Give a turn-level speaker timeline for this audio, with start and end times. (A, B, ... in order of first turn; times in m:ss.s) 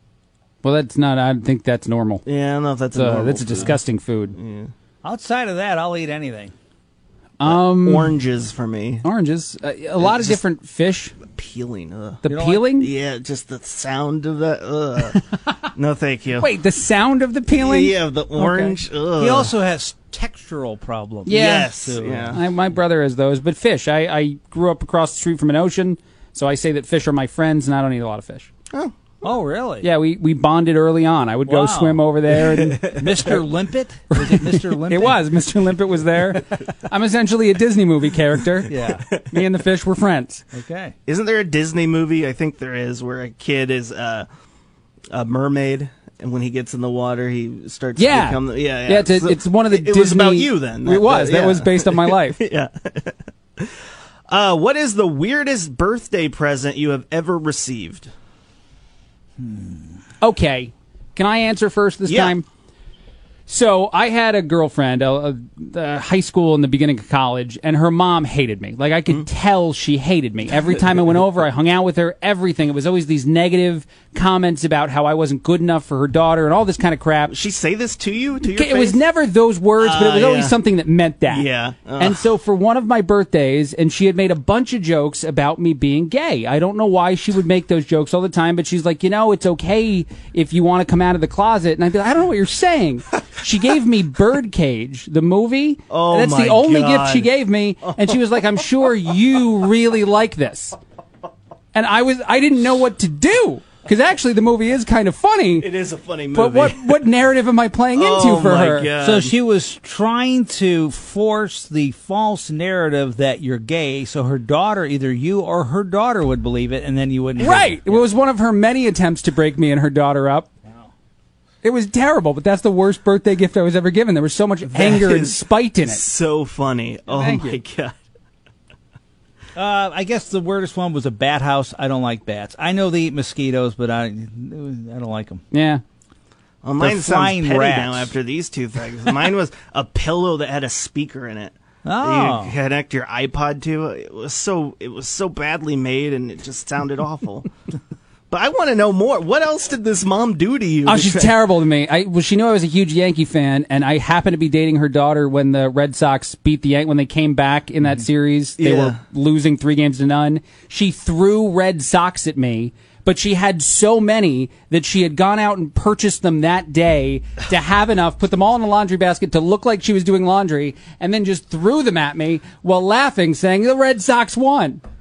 0:00.6-0:02.2 A
0:02.2-0:03.8 B
0:02.9-0:04.4 A
0:04.4-0:04.7 B
0:05.0-0:06.5 C
0:07.4-0:08.2 A
0:07.4-0:09.0 B
0:09.0-0:11.1 A
0:10.0-0:10.4 B
0:11.3-0:15.2 B
0:12.2-0:12.9 A
0:12.3-0:12.6 C
0:15.1-0:15.6 A
0:15.7-0:16.5 B
0:16.4-0:18.8 A
0:17.5-0:19.5 B
0:19.2-0:22.4 C
0:21.2-0:21.7 A
0:21.3-0:22.4 B
0:22.3-0:28.5 A
0:28.7-0:29.0 B
0:29.2-0:29.9 C
0:29.8-0:32.9 A
0:31.4-0:32.0 C
0:32.3-0:33.4 B
0:33.0-0:35.2 C
0:34.1-0:40.4 A
0:38.7-0:39.0 C
0:38.8-0:39.4 B
0:40.5-0:40.9 C
0:41.0-0:44.3 B
0:45.1-0:53.7 B
0:48.0-0:52.4 A
0:54.3-0:58.1 B
0:59.4-1:00.0 C
1:00.2-1:02.4 A
1:02.0-1:02.4 B
1:03.5-1:17.3 A
1:17.3-1:19.0 B
1:18.5-1:21.4 A
1:19.8-1:20.6 B
1:21.3-1:22.3 B
1:22.0-1:40.8 A
1:35.9-1:37.3 B
1:37.8-1:38.1 B
1:41.7-1:45.7 A
1:45.6-1:47.0 B
1:46.3-1:48.9 A
1:47.9-1:49.3 B
1:49.0-1:58.0 C
1:57.4-2:00.5 A
2:01.6-2:06.0 A
2:04.7-2:07.9 B
2:07.1-2:07.6 A
2:09.5-2:15.4 C
2:15.5-2:15.8 A
2:16.6-2:27.5 B
2:16.8-2:18.1 C
2:21.8-2:22.6 C
2:28.3-2:31.3 B
2:30.8-2:54.8 A
2:38.6-2:39.0 B